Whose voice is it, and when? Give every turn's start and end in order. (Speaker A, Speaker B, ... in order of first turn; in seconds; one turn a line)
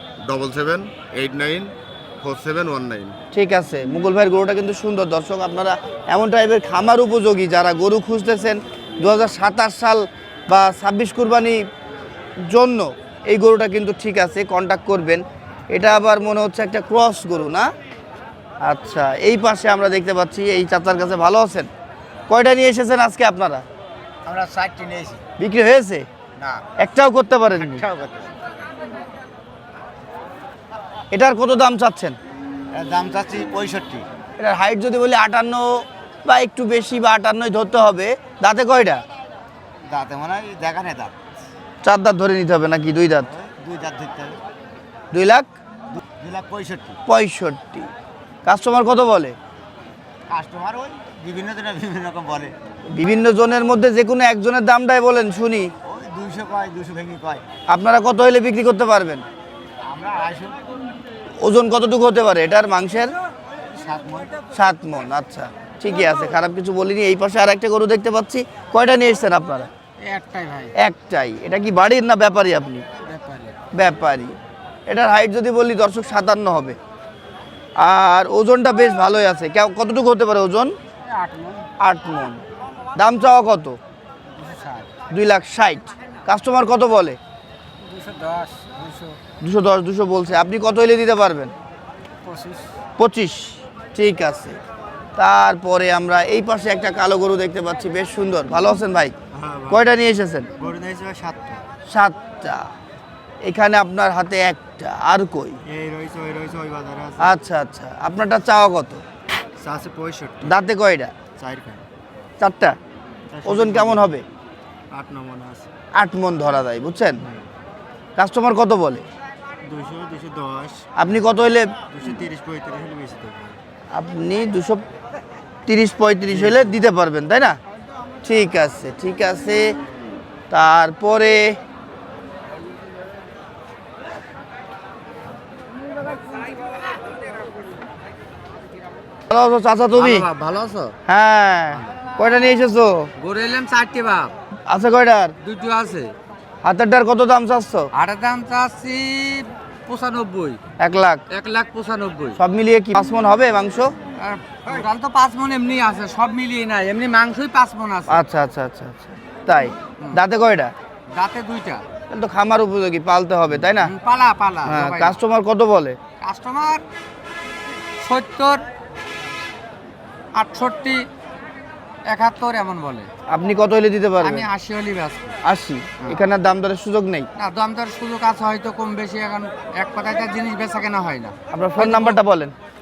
Speaker A: 0.2-3.2
Speaker B: 3.3-11.6
Speaker B: 12.5-17.7
Speaker B: 18.6-21.7
Speaker B: 22.3-23.6
Speaker C: 24.2-25.2
Speaker B: 25.4-26.1
Speaker C: 26.4-26.6
Speaker B: 26.8-27.9
Speaker C: 27.5-28.4
Speaker B: 31.1-32.2
Speaker C: 32.7-34.1
Speaker B: 34.4-39.0
Speaker C: 39.9-41.1
Speaker B: 41.8-43.3
Speaker C: 43.2-44.4
Speaker B: 45.1-45.5
Speaker C: 45.9-47.0
Speaker B: 47.1-47.9
Speaker B: 48.5-49.4
Speaker C: 50.3-52.5
Speaker B: 52.9-55.7
Speaker C: 55.8-57.4
Speaker B: 57.7-59.2
Speaker C: 59.8-60.6
Speaker B: 61.4-63.1
Speaker C: 63.7-64.3
Speaker B: 64.5-69.7
Speaker C: 70.0-70.7
Speaker B: 70.8-72.8
Speaker C: 73.0-73.6
Speaker B: 73.7-74.4
Speaker B: 74.9-76.8
Speaker B: 77.8-80.8
Speaker C: 81.1-81.7
Speaker B: 81.8-82.4
Speaker B: 83.0-83.8
Speaker C: 84.3-84.9
Speaker B: 85.1-87.2
Speaker C: 87.8-89.2
Speaker B: 89.4-91.5
Speaker C: 92.2-92.7
Speaker B: 93.0-94.6
Speaker B: 95.2-99.2
Speaker C: 99.3-99.9
Speaker B: 99.7-100.5
Speaker C: 100.6-101.6
Speaker B: 101.9-102.7
Speaker B: 103.4-105.6
Speaker C: 105.7-107.3
Speaker B: 107.2-109.0
Speaker C: 109.6-110.5
Speaker B: 110.4-111.1
Speaker C: 111.4-111.8
Speaker B: 112.4-112.8
Speaker C: 113.3-114.1
Speaker B: 113.4-114.2
Speaker C: 114.9-115.7
Speaker B: 116.0-117.2
Speaker B: 118.2-119.1
Speaker C: 119.6-121.2
Speaker B: 121.0-121.7
Speaker C: 121.9-123.6
Speaker B: 123.9-124.8
Speaker B: 125.7-127.6
Speaker C: 126.3-126.7
Speaker B: 128.2-129.7
Speaker B: 130.5-131.6
Speaker B: 139.3-140.3
Speaker C: 140.0-140.9
Speaker B: 141.1-143.1
Speaker C: 143.2-144.3
Speaker B: 144.7-145.3
Speaker C: 145.4-146.1
Speaker B: 146.6-147.9
Speaker C: 147.9-150.6
Speaker B: 150.8-151.2
Speaker C: 151.3-152.4
Speaker B: 152.4-153.9
Speaker C: 154.2-158.2
Speaker B: 158.1-160.7
Speaker C: 161.1-161.8
Speaker B: 162.1-163.9
Speaker C: 163.8-165.2
Speaker B: 164.7-166.0
Speaker C: 166.2-166.8
Speaker C: 168.0-168.7
Speaker C: 170.3-171.1
Speaker C: 172.1-173.1
Speaker B: 173.3-174.5
Speaker C: 174.2-175.4
Speaker B: 175.4-177.3
Speaker C: 177.4-182.2
Speaker B: 181.5-182.5